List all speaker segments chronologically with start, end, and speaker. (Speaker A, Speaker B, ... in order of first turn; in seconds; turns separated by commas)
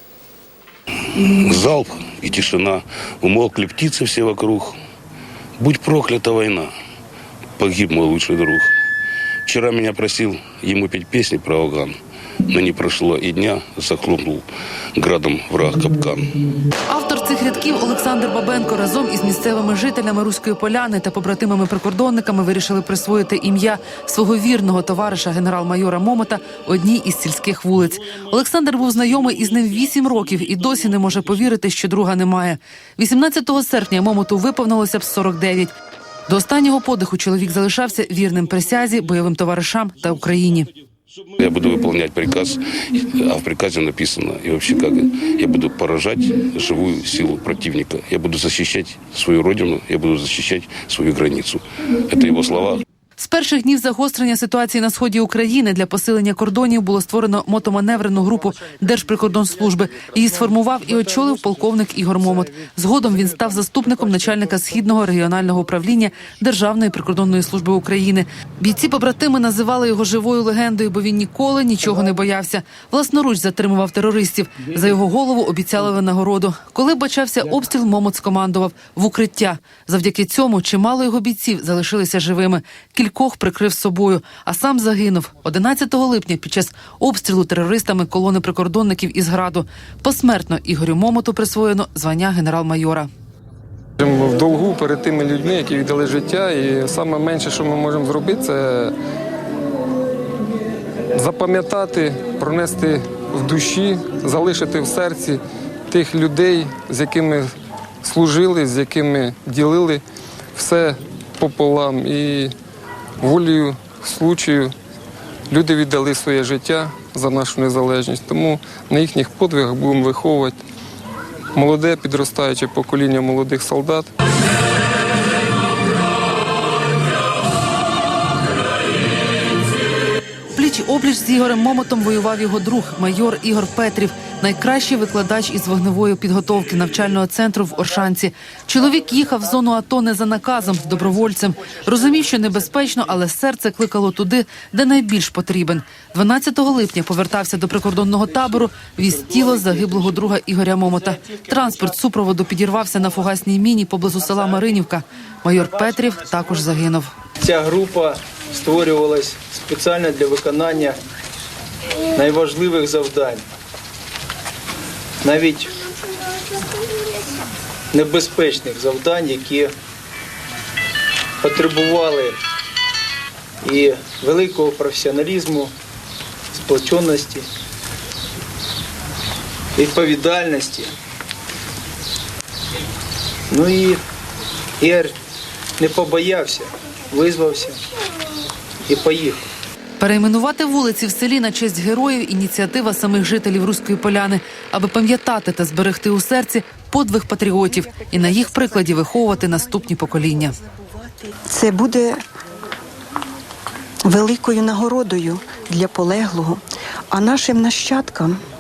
Speaker A: 1.1-4.8, Speaker A: 5.6-6.7, Speaker A: 7.6-8.7, Speaker A: 9.5-12.0, Speaker A: 12.5-16.4, Speaker B: 16.9-35.7, Speaker B: 36.3-40.7, Speaker A: 41.4-52.8, Speaker B: 53.2-93.1, Speaker C: 94.0-98.9, Speaker C: 101.2-107.5, Speaker C: 108.0-110.0, Speaker C: 110.5-112.5, Speaker C: 113.2-114.7, Speaker C: 115.5-120.6, Speaker C: 121.5-124.1, Speaker B: 130.5-157.1, Speaker D: 157.4-161.0, Speaker D: 162.1-163.4, Speaker D: 165.2-165.7, Speaker D: 167.9-169.7, Speaker D: 171.4-172.4, Speaker D: 173.6-175.7, Speaker D: 176.5-177.5, Speaker D: 179.8-180.9, Speaker D: 183.5-184.0, Speaker D: 184.8-185.2, Speaker D: 185.8-187.8, Speaker D: 188.8-189.4, Speaker B: 190.0-200.5, Speaker E: 197.7-202.2, Speaker E: 204.1-208.4